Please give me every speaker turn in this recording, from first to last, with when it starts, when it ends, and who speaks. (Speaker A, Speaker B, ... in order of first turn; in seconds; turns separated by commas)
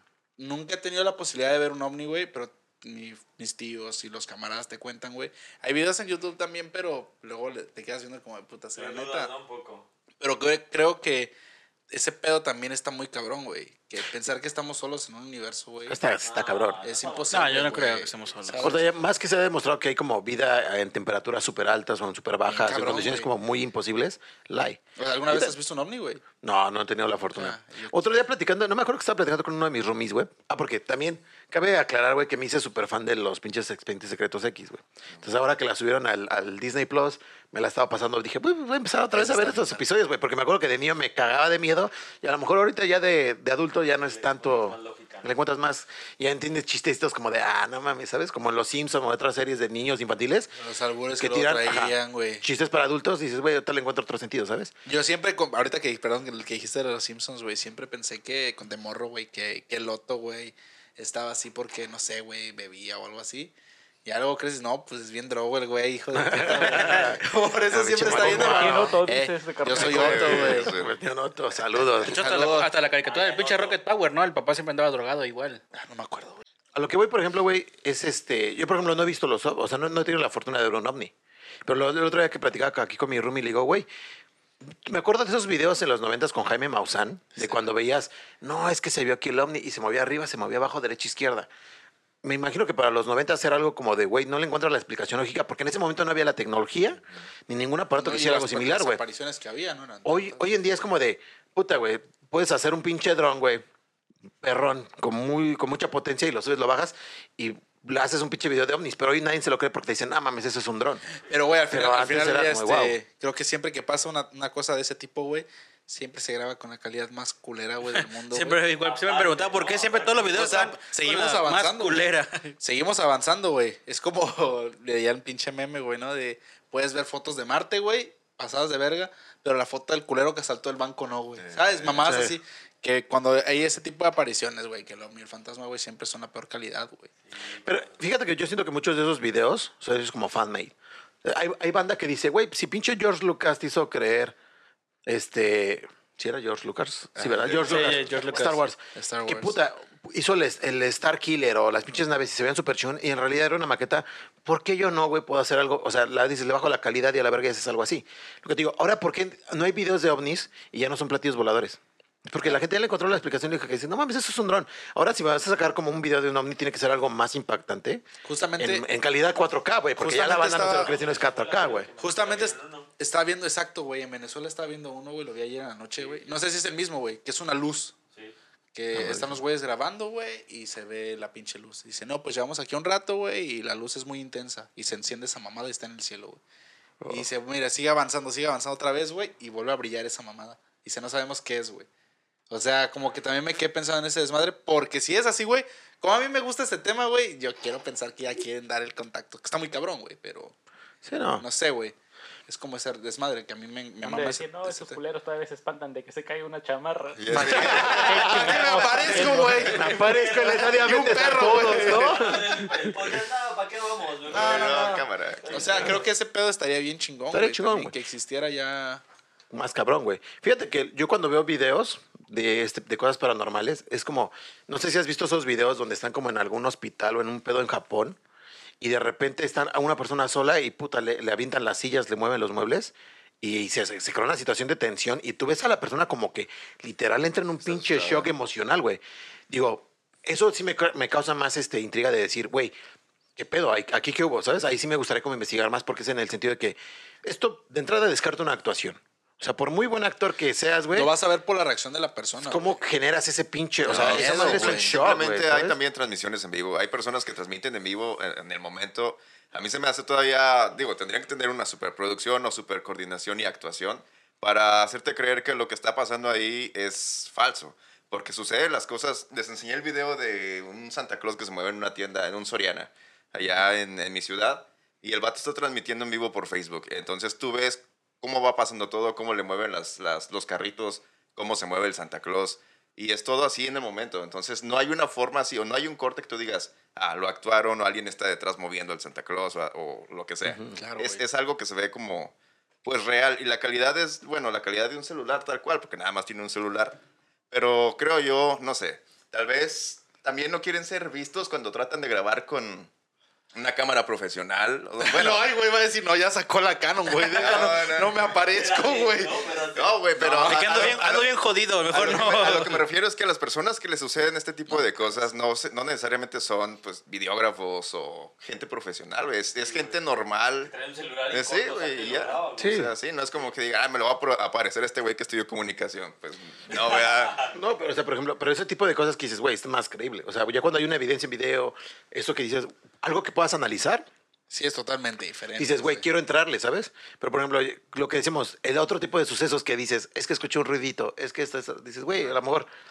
Speaker A: 0.4-9.3, Speaker B: 8.8-9.9, Speaker A: 10.2-11.3, Speaker A: 11.9-16.0, Speaker C: 15.9-16.8, Speaker B: 16.0-18.0, Speaker A: 16.8-18.9, Speaker D: 17.3-18.7, Speaker C: 18.6-25.6, Speaker A: 22.5-23.3, Speaker A: 25.0-26.2, Speaker C: 26.4-50.6, Speaker A: 27.3-28.2, Speaker A: 39.1-39.8, Speaker B: 44.0-45.4, Speaker A: 50.6-52.5, Speaker C: 51.1-54.7, Speaker A: 54.9-63.5, Speaker A: 64.0-70.7, Speaker C: 66.2-69.0, Speaker E: 68.3-70.5, Speaker C: 69.7-72.2, Speaker F: 70.0-70.9, Speaker D: 72.0-75.6, Speaker A: 72.1-72.8, Speaker B: 73.0-73.8, Speaker A: 75.7-76.4, Speaker C: 76.8-81.1, Speaker C: 81.7-83.9, Speaker C: 84.6-91.5, Speaker C: 92.2-99.0, Speaker A: 98.0-100.5, Speaker C: 100.0-103.6, Speaker C: 104.4-111.0, Speaker A: 111.3-118.7, Speaker C: 111.7-113.0, Speaker D: 117.9-122.5, Speaker B: 118.8-120.8, Speaker A: 120.3-137.1, Speaker F: 131.4-132.1, Speaker C: 132.1-132.4, Speaker B: 137.3-138.0, Speaker C: 137.6-144.3, Speaker C: 145.1-168.1, Speaker A: 147.2-148.0, Speaker F: 147.4-147.9, Speaker D: 147.6-148.6, Speaker A: 148.9-149.6, Speaker A: 168.2-168.8, Speaker C: 168.6-171.9, Speaker A: 170.0-170.9, Speaker B: 170.5-172.9, Speaker A: 172.0-178.0, Speaker A: 178.7-186.4, Speaker C: 178.9-179.4, Speaker C: 187.0-187.3, Speaker A: 187.1-191.9, Speaker A: 192.5-200.6, Speaker C: 201.0-201.4, Speaker A: 201.4-202.0, Speaker A: 202.5-205.0, Speaker E: 204.1-209.6, Speaker F: 207.2-208.4, Speaker A: 207.3-212.3, Speaker C: 207.9-212.9, Speaker B: 209.7-216.1, Speaker F: 214.3-216.0, Speaker A: 214.3-219.0, Speaker C: 217.3-217.9, Speaker C: 219.5-228.2, Speaker C: 228.8-242.8, Speaker F: 237.6-238.3, Speaker C: 243.4-251.1, Speaker A: 250.9-252.8, Speaker C: 252.4-255.8, Speaker A: 253.8-255.1, Speaker F: 253.9-292.3, Speaker A: 290.7-291.2, Speaker F: 292.8-297.0, Speaker F: 297.5-302.9, Speaker F: 303.6-305.5, Speaker A: 305.0-309.4, Speaker F: 307.3-308.4, Speaker B: 307.4-307.7, Speaker B: 308.5-311.0, Speaker F: 309.8-311.3, Speaker D: 310.4-312.9, Speaker F: 311.9-320.7, Speaker B: 319.6-320.0, Speaker B: 320.6-322.8, Speaker F: 321.3-327.4, Speaker C: 322.6-322.9, Speaker B: 326.7-327.6, Speaker C: 327.5-334.1, Speaker A: 334.5-336.1, Speaker C: 335.6-342.7